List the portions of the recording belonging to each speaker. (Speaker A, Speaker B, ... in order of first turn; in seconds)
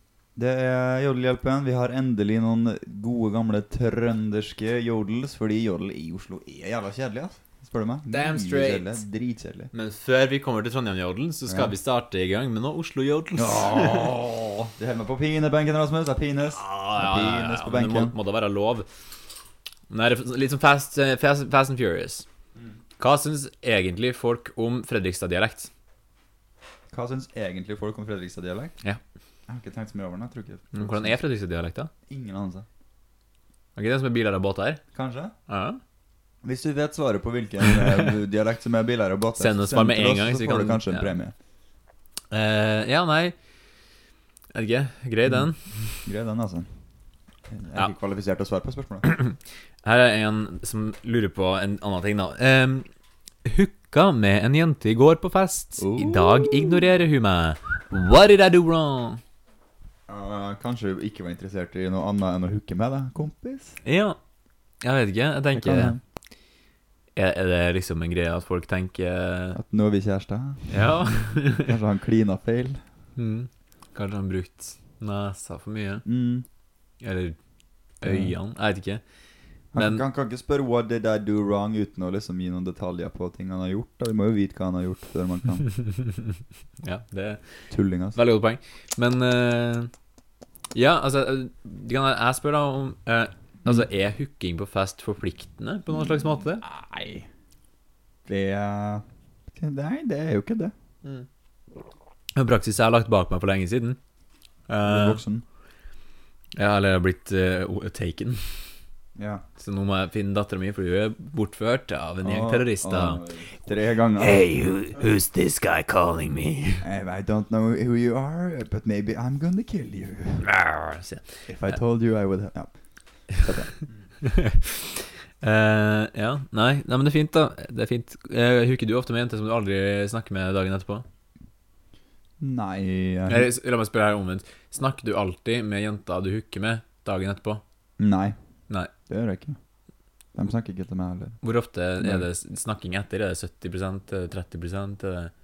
Speaker A: 0.3-9.7, 11.5-11.7, 13.3-18.1, 26.9-28.7, 29.5-31.2, 32.1-32.6, 34.9-35.3, 36.4-41.3, 45.3-46.7, 47.5-49.1, 55.8-56.8, 60.1-63.8, 65.5-66.0, 69.5-72.8, 76.0-76.5, 78.0-78.3, 79.7-85.7, 87.7-88.2, 95.9-97.2, 98.2-100.7, 104.8-105.4, 109.2-109.4, 112.2-114.5, 116.8-120.5, 121.5-122.7, 123.3-123.8, 132.4-133.5, 138.0-138.3, 139.1-139.6, 140.3-141.4, 142.0-142.3
Speaker B: 8.1-9.0, 9.7-14.1, 16.5-18.9, 19.9-22.2, 23.0-25.7, 30.7-31.9, 33.8-34.8, 35.5-35.8, 39.4-41.1, 42.3-43.3, 44.5-46.0, 49.0-52.9, 53.4-59.2, 63.8-64.2, 64.8-66.0, 67.1-69.6, 70.7-71.7, 73.2-76.0, 77.0-77.4, 78.0-79.0, 79.8-80.0, 85.7-86.3, 86.8-87.4, 88.1-89.9, 90.7-96.6, 102.3-104.0, 104.7-105.2, 106.5-108.6, 109.6-113.2, 114.2-116.8, 120.4-121.4, 124.2-131.0, 133.3-137.6, 141.4-145.3